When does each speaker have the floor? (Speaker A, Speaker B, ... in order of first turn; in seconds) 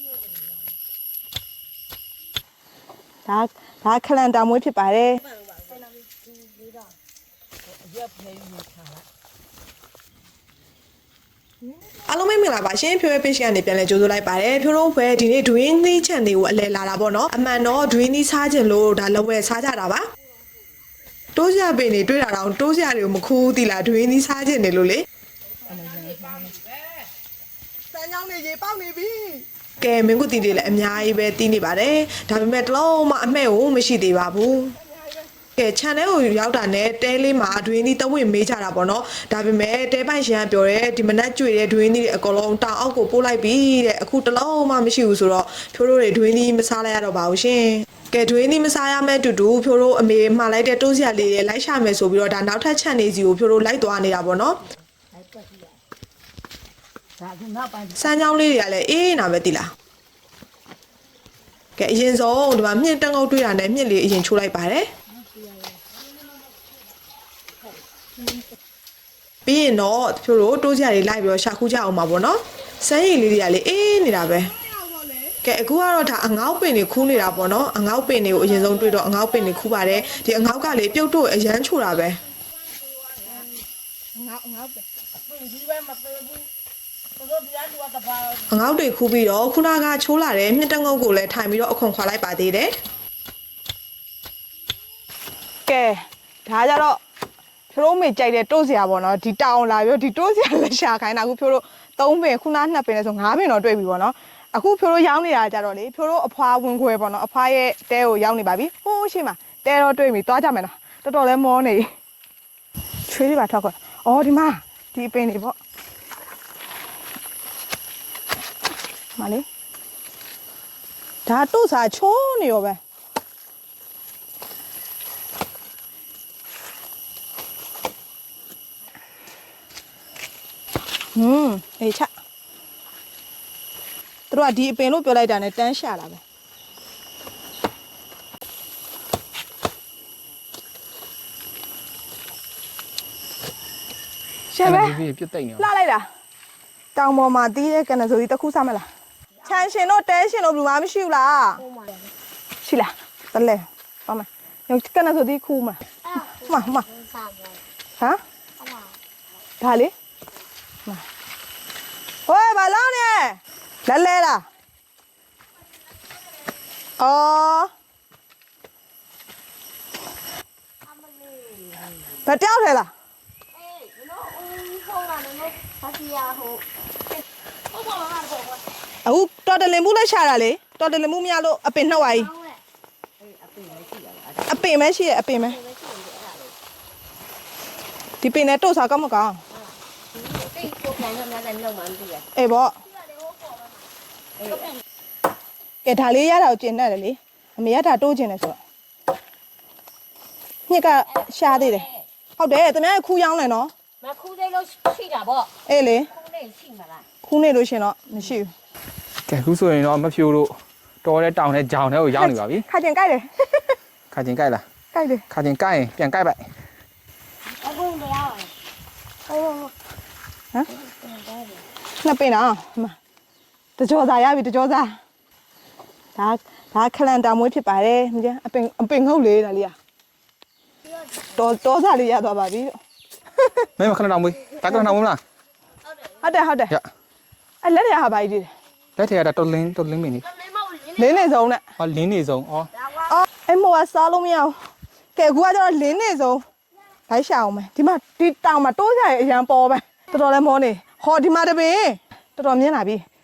Speaker A: 3.2-5.2, 25.7-26.5, 27.9-29.4, 84.1-84.8, 95.7-97.0, 97.7-111.9, 113.1-115.5, 119.2-119.4, 121.2-122.8, 131.1-132.1, 134.3-136.2, 144.5-145.0, 145.6-146.1, 146.9-148.9, 149.4-151.6, 152.6-155.8, 156.4-156.8, 159.6-159.9, 162.3-164.4, 167.0-167.7, 172.2-172.9, 179.0-182.3, 184.5-185.6, 188.2-189.4, 192.3-192.8, 195.8-198.6, 200.7-203.7, 205.7-206.1, 207.2-208.5, 212.2-213.8, 214.9-215.2, 222.0-222.9, 223.8-225.0, 226.2-229.7, 231.3-232.7, 236.2-236.7, 237.6-238.5, 240.9-241.6, 243.1-244.6, 245.1-246.4, 247.1-253.0
Speaker B: 7.9-9.0, 57.2-57.9, 85.3-86.3, 87.2-88.1, 151.6-152.1, 156.1-157.6, 158.6-159.0, 170.9-171.9, 173.5-176.6, 177.7-178.6, 183.2-184.5, 185.4-186.5, 190.1-192.3, 194.4-194.7, 204.0-205.5, 206.1-207.1, 217.6-218.5, 219.3-219.7, 220.7-221.6, 240.6-240.9
Speaker C: 12.1-20.1, 21.3-25.0, 29.8-34.8, 35.5-54.6, 57.9-59.7, 61.8-64.9, 69.5-74.5, 75.4-82.2, 88.4-92.8
Speaker D: 144.6-145.6, 209.3-212.6, 214.1-214.6, 215.3-216.4, 233.8-235.2, 239.0-240.3, 241.8-242.7